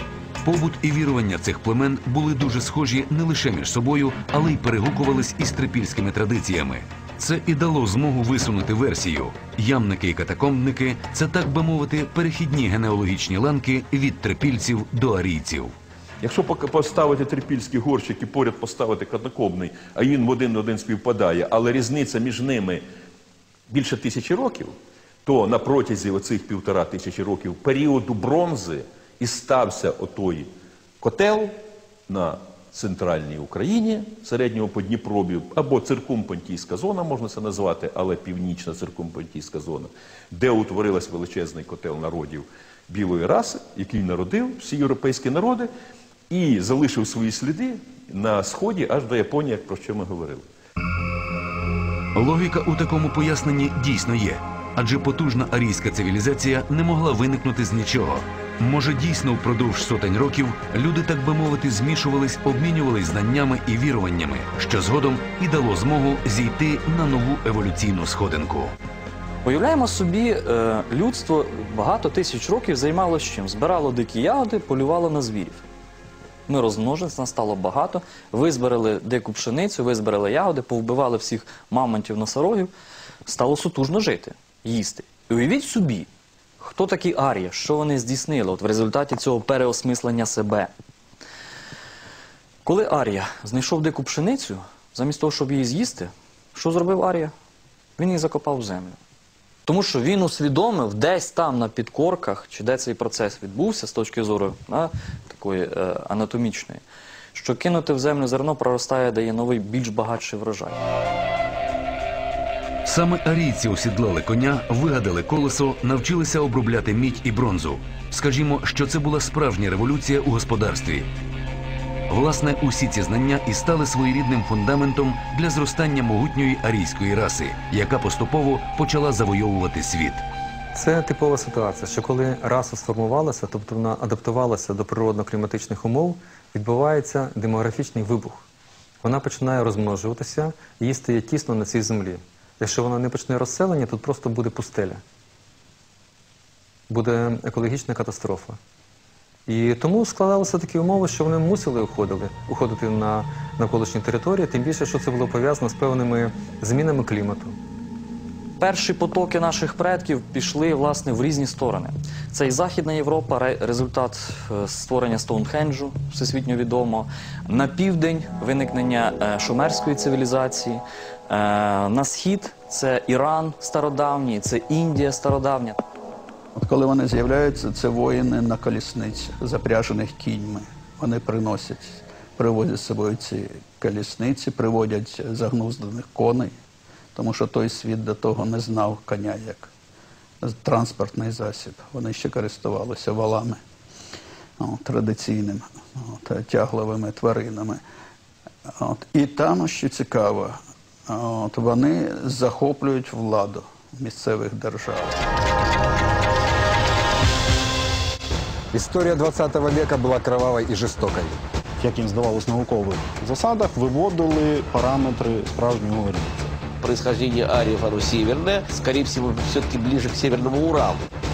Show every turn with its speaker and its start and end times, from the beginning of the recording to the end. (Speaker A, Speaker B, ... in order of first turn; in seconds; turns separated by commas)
Speaker A: 0.4-15.7, Speaker B: 16.2-22.8, Speaker B: 23.7-24.7, Speaker B: 25.2-31.5, Speaker B: 32.1-45.7, Speaker B: 46.3-50.4, Speaker A: 52.1-68.8, Speaker C: 69.5-75.7, Speaker C: 76.5-82.7, Speaker C: 83.3-86.1, Speaker C: 86.6-90.7, Speaker C: 92.7-97.3, Speaker C: 98.0-99.0, Speaker C: 99.7-106.8, Speaker C: 107.3-110.8, Speaker A: 112.8-121.1, Speaker A: 122.1-130.2, Speaker D: 130.8-138.4, Speaker D: 139.0-145.0, Speaker D: 146.9-148.6, Speaker D: 149.5-157.6, Speaker C: 158.6-175.8, Speaker E: 176.6-186.6, Speaker E: 187.2-189.7, Speaker E: 190.4-193.6, Speaker E: 194.6-197.8, Speaker E: 198.7-205.2, Speaker F: 208.7-211.3, Speaker G: 211.8-216.6, Speaker H: 216.8-221.0